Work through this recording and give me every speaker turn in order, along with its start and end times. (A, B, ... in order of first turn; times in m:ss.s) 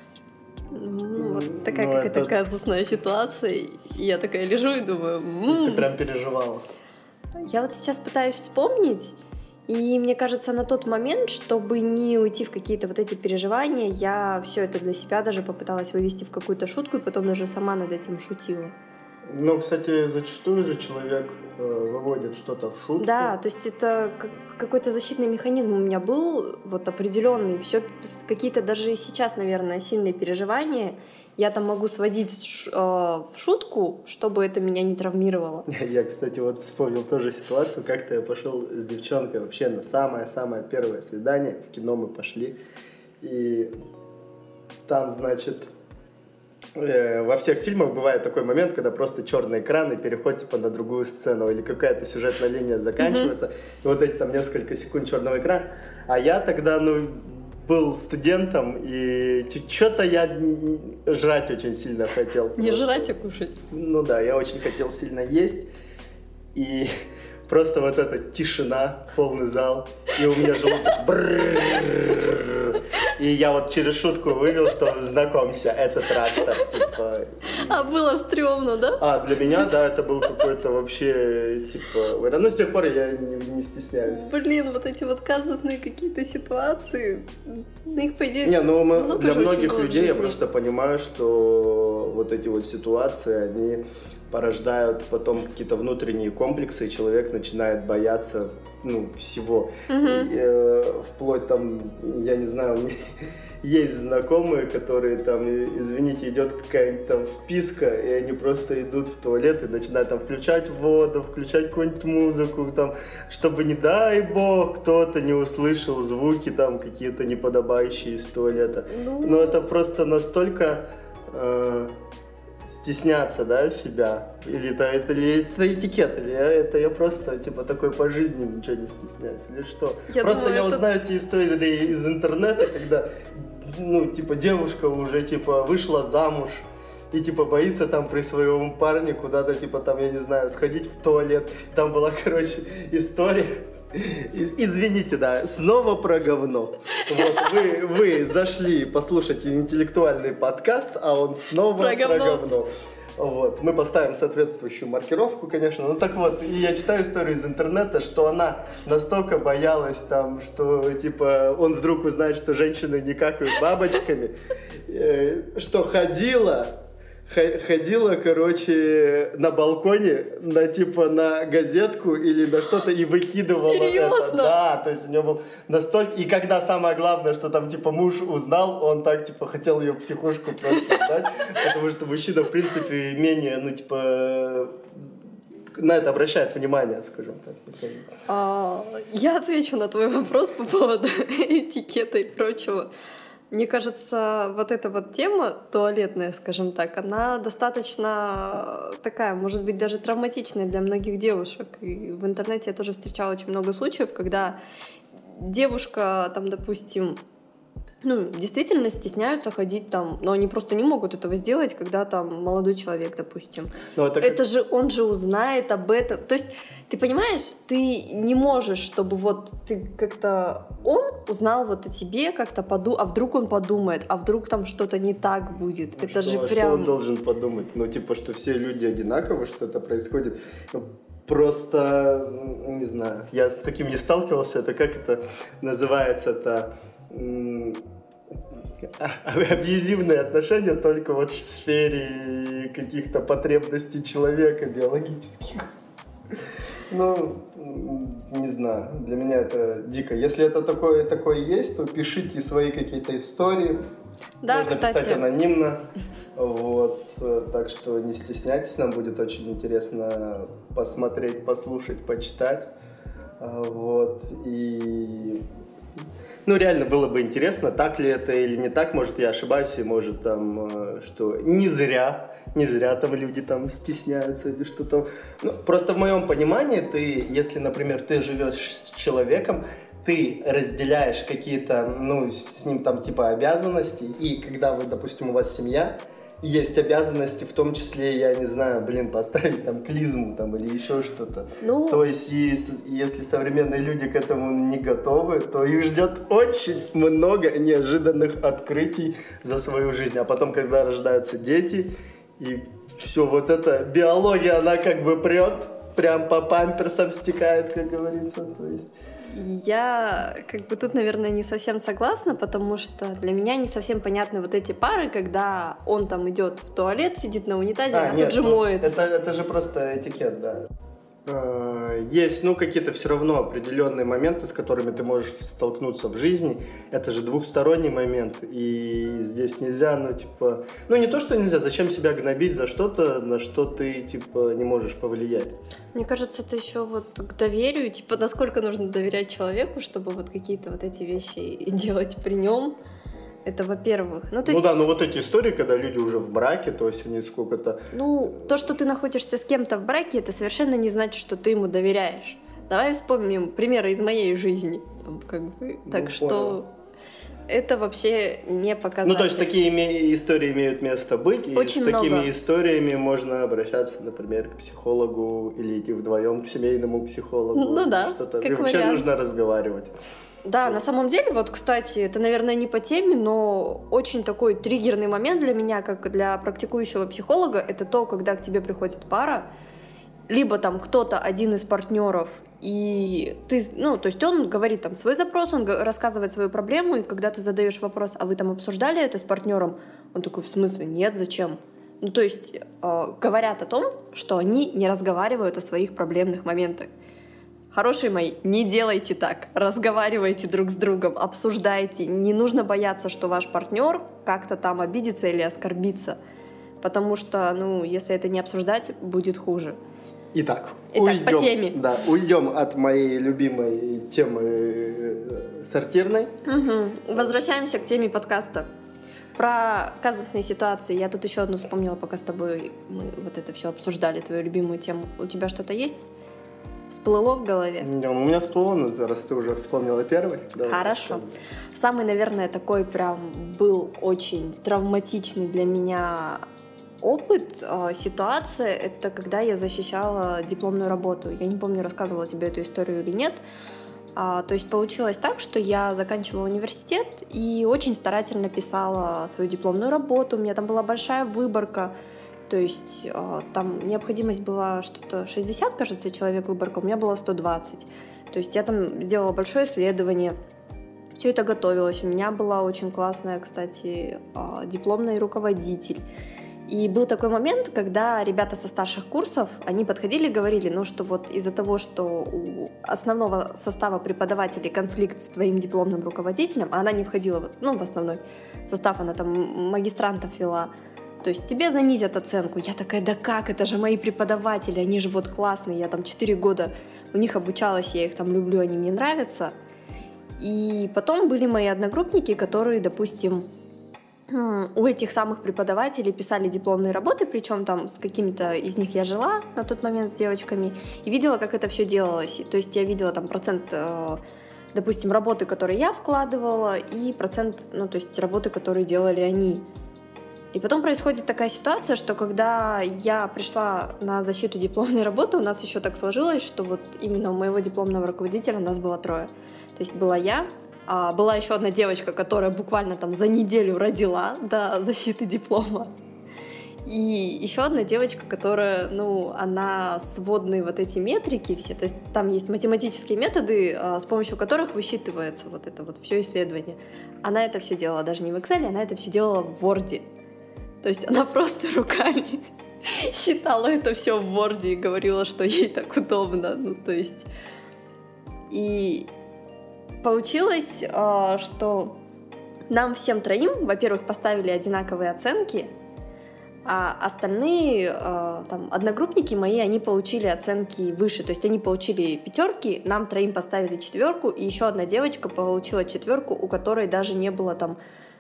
0:00.7-0:05.9 A
0:01.2-0:02.4 B
0:05.5-0:06.6 B
0:07.4-0:09.2 A
0:09.7-0:18.7 A
0:19.2-0:23.3 B
0:23.0-0:35.6 A
0:35.7-0:42.6 B
0:43.2-0:43.7 B
0:44.9-0:45.7 B
0:46.8-1:03.1 B
0:53.0-0:53.3 A
1:02.6-1:03.6 A
1:03.7-1:05.7 B
1:06.5-1:06.9 B
1:07.5-1:17.8 B
1:16.4-1:16.6 A
1:17.5-1:19.6 A
1:19.0-1:24.3 B
1:24.0-1:30.4 A
1:28.4-1:42.9 B
1:39.9-1:40.3 A
1:43.6-2:01.9 B
1:58.9-1:59.7 A
2:02.6-2:44.3 B
2:10.1-2:10.8 A
2:27.1-2:27.6 A
2:31.8-2:32.4 A
2:44.8-3:04.8 B
2:53.5-2:54.5 A
3:05.7-3:08.0 B
3:08.3-3:12.9 A
3:13.5-3:24.6 A
3:25.2-3:27.2 A
3:28.0-3:46.9 A
3:34.0-3:34.4 B
3:46.0-3:57.8 B
3:58.8-4:05.7 B
4:06.9-4:13.8 B
4:14.4-4:15.2 A
4:14.5-4:15.8 B
4:16.4-4:22.7 B
4:23.4-4:25.4 B
4:26.4-5:08.9 B
4:51.6-4:52.0 A
5:09.3-5:19.0 A
5:17.9-5:20.7 B
5:21.2-5:35.6 B
5:35.9-5:42.8 A
5:43.4-5:44.7 A
5:44.4-5:48.5 B
5:47.9-5:56.7 A
5:55.9-5:56.6 B
5:57.5-5:59.5 A
5:59.0-6:09.9 B
6:01.5-6:02.3 A
6:07.5-6:09.1 A
6:10.4-6:19.4 A
6:20.3-6:36.9 A
6:37.7-6:46.2 A
6:46.8-6:49.8 A
6:50.3-6:56.4 B
6:50.9-6:51.8 A
6:56.4-6:58.7 A
6:59.4-7:06.0 A
7:06.9-7:07.9 A
7:07.8-7:11.3 B
7:10.6-7:16.4 A
7:17.0-7:23.4 A
7:24.2-7:31.9 A
7:32.5-7:40.4 A
7:41.2-7:46.0 A
7:46.7-8:09.5 A
8:10.4-8:13.4 A
8:14.3-8:24.2 A
8:24.7-8:29.6 A
8:30.5-8:45.9 A
8:46.8-9:00.1 A
9:00.8-9:07.2 A
9:08.5-9:09.1 A
9:10.0-9:12.0 A
9:12.7-9:15.7 A
9:16.6-9:27.8 A